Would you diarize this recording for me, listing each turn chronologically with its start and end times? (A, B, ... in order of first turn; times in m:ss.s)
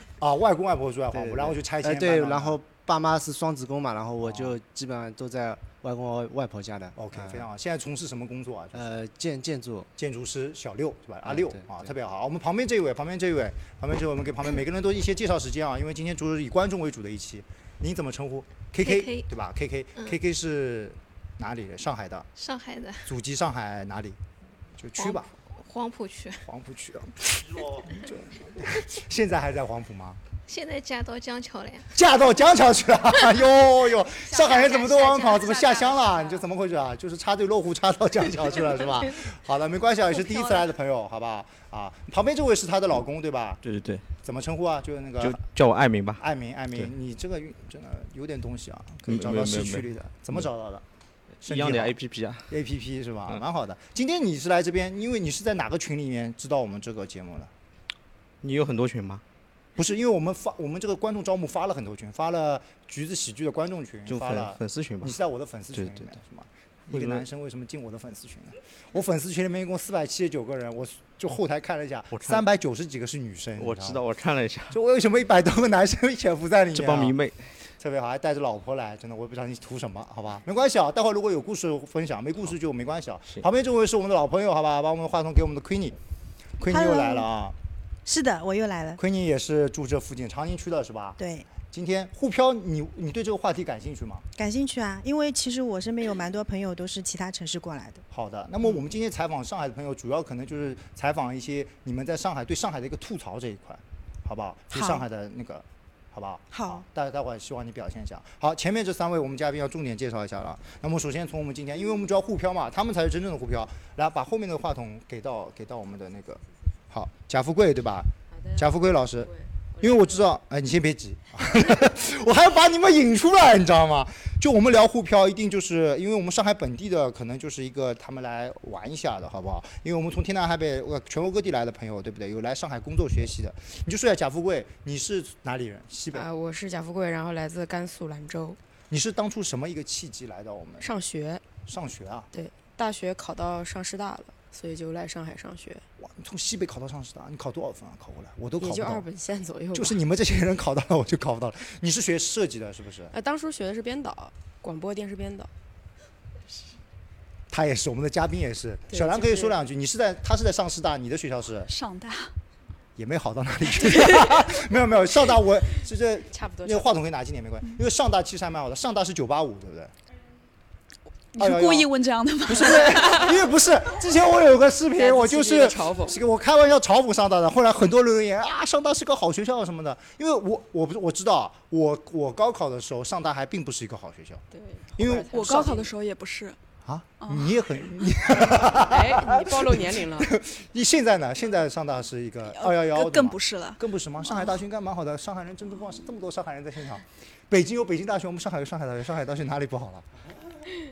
0:00.2-0:02.6 A
0:01.1-0:07.4 B
0:04.2-0:04.6 A
0:07.0-0:08.9 A
0:08.7-0:09.9 B
0:10.0-0:22.3 A
0:11.2-0:11.9 B
0:18.8-0:19.3 C
0:22.4-0:23.0 C
0:23.0-0:24.2 A
0:24.8-0:25.3 A
0:25.0-0:26.5 C
0:26.4-0:30.2 A
0:30.5-0:31.9 C
0:31.9-0:43.6 A
0:34.3-0:36.4 D
0:43.6-0:44.0 E
0:44.2-0:45.4 A
0:45.2-0:46.2 E
0:46.2-0:50.8 A
0:49.0-0:50.5 E
0:51.4-0:52.5 E
0:51.4-0:52.0 A
0:52.5-0:57.5 A
0:58.4-0:59.2 E
0:59.8-1:14.0 A
1:04.1-1:05.1 E
1:05.7-1:06.1 E
1:06.9-1:07.2 E
1:12.1-1:12.4 E
1:13.6-1:14.8 E
1:14.7-1:17.2 A
1:16.7-1:17.4 E
1:17.8-1:26.0 A
1:26.6-1:27.6 A
1:26.6-1:27.3 F
1:28.0-1:29.0 F
1:29.0-1:34.2 A
1:31.2-1:31.5 F
1:34.4-1:38.0 F
1:38.1-2:16.3 A
1:44.7-1:45.0 F
1:46.5-1:46.8 F
1:58.3-2:00.3 D
2:16.1-2:18.6 D
2:18.9-2:20.9 A
2:20.8-2:21.6 D
2:21.6-2:22.3 A
2:22.3-2:25.8 D
2:26.0-2:29.0 A
2:28.6-2:30.0 D
2:29.7-2:33.1 A
2:33.1-2:35.5 D
2:37.5-2:41.7 A
2:38.9-2:39.6 D
2:41.7-2:42.3 G
2:43.0-2:49.9 A
2:46.3-2:46.9 D
2:51.3-2:53.3 G
2:51.4-2:51.9 A
2:52.4-3:04.4 A
2:55.0-2:56.2 D
3:04.5-3:05.9 D
3:05.0-3:05.6 A
3:05.3-3:06.6 G
3:06.8-3:20.0 A
3:07.2-3:07.6 G
3:08.6-3:10.3 D
3:12.5-3:13.8 G